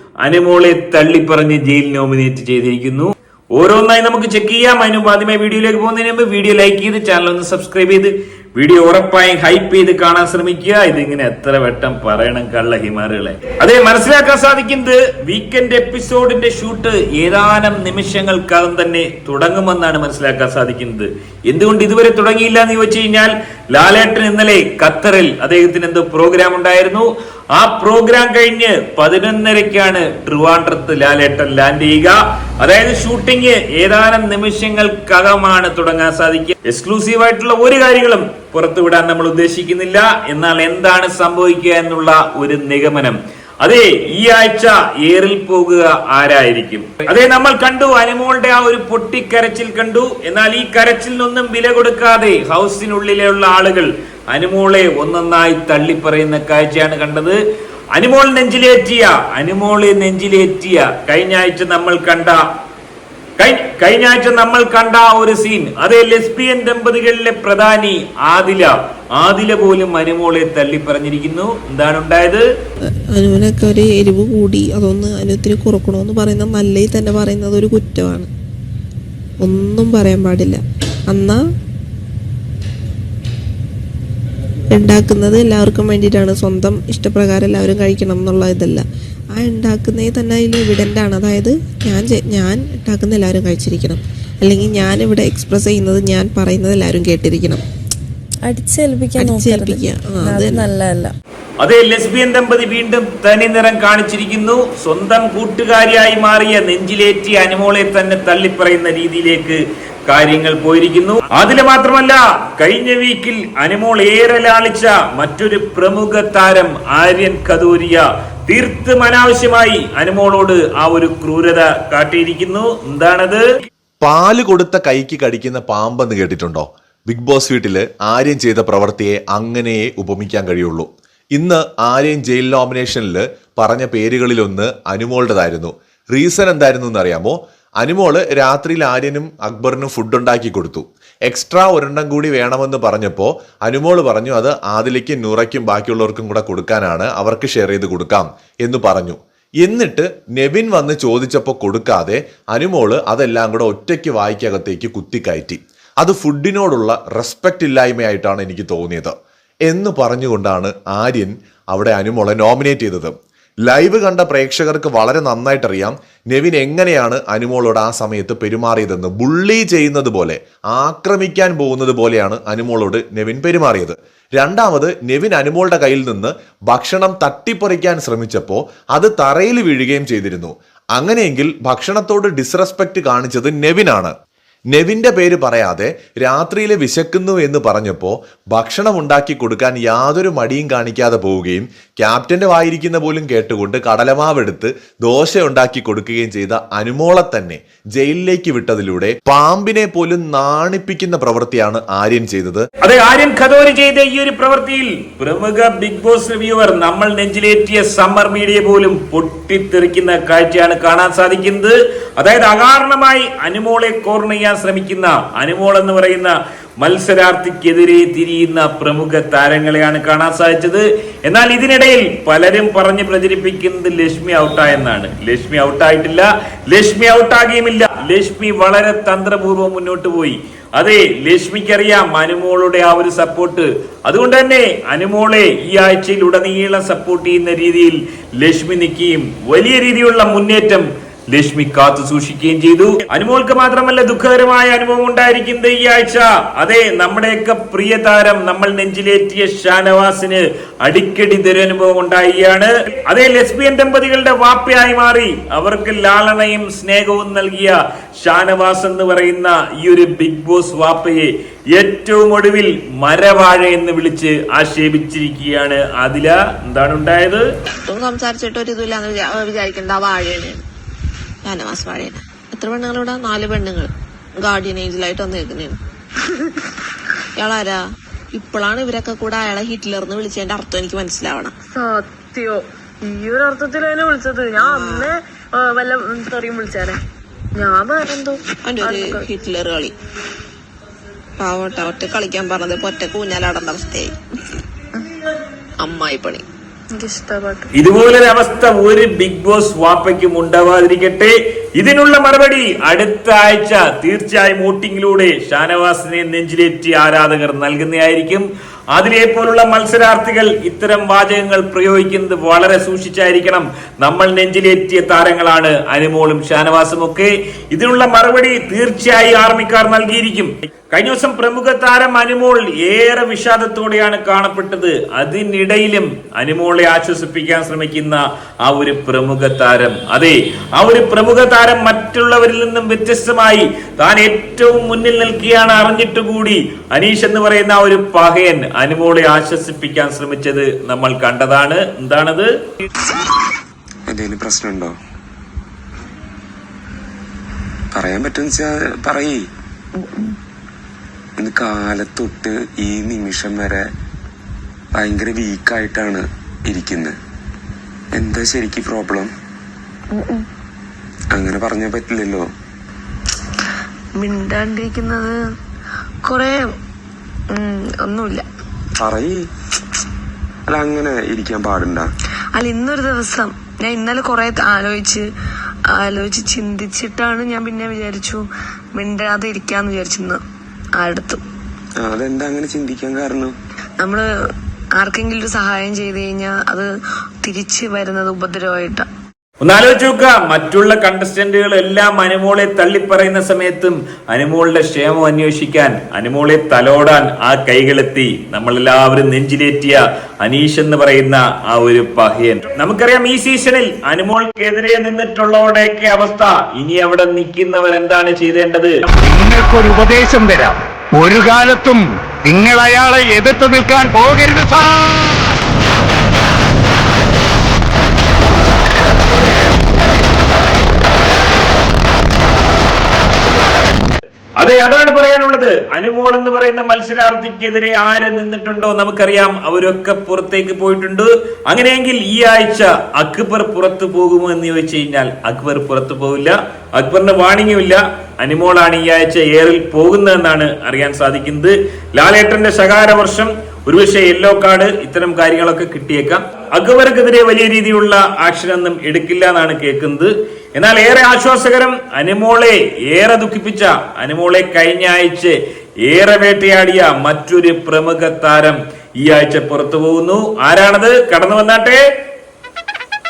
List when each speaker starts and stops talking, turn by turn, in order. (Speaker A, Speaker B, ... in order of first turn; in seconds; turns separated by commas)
Speaker A: 0.2-57.4, Speaker A: 57.9-62.4, Speaker A: 63.4-72.4, Speaker B: 73.1-78.3, Speaker B: 79.4-81.4, Speaker B: 84.7-88.8, Speaker B: 89.3-97.6, Speaker C: 98.5-101.1, Speaker B: 99.2-100.7, Speaker A: 101.6-123.5, Speaker D: 124.0-159.1, Speaker D: 159.7-163.1, Speaker D: 163.7-184.1, Speaker D: 184.7-202.6, Speaker A: 202.8-267.4, Speaker B: 267.9-270.6, Speaker B: 271.4-275.8, Speaker B: 277.4-277.8, Speaker B: 278.3-281.5, Speaker E: 281.7-287.0, Speaker B: 284.6-285.1, Speaker E: 287.6-289.3, Speaker B: 288.6-289.9, Speaker B: 291.4-294.1, Speaker B: 295.8-296.4, Speaker E: 296.9-297.7, Speaker A: 297.8-342.5, Speaker F: 344.1-344.9, Speaker F: 347.9-349.4, Speaker F: 351.4-353.9, Speaker F: 354.9-357.2, Speaker F: 358.1-359.3, Speaker E: 360.1-360.5, Speaker F: 361.3-362.4, Speaker E: 364.2-365.3, Speaker E: 366.2-366.6, Speaker E: 367.5-368.5, Speaker F: 369.0-369.5, Speaker F: 370.7-372.1, Speaker E: 372.5-375.3, Speaker E: 375.9-380.4, Speaker E: 381.0-381.4, Speaker F: 382.0-383.6, Speaker E: 384.0-384.3, Speaker E: 384.9-386.9, Speaker E: 387.4-389.1, Speaker A: 389.6-409.0, Speaker G: 409.2-415.5, Speaker A: 424.6-462.0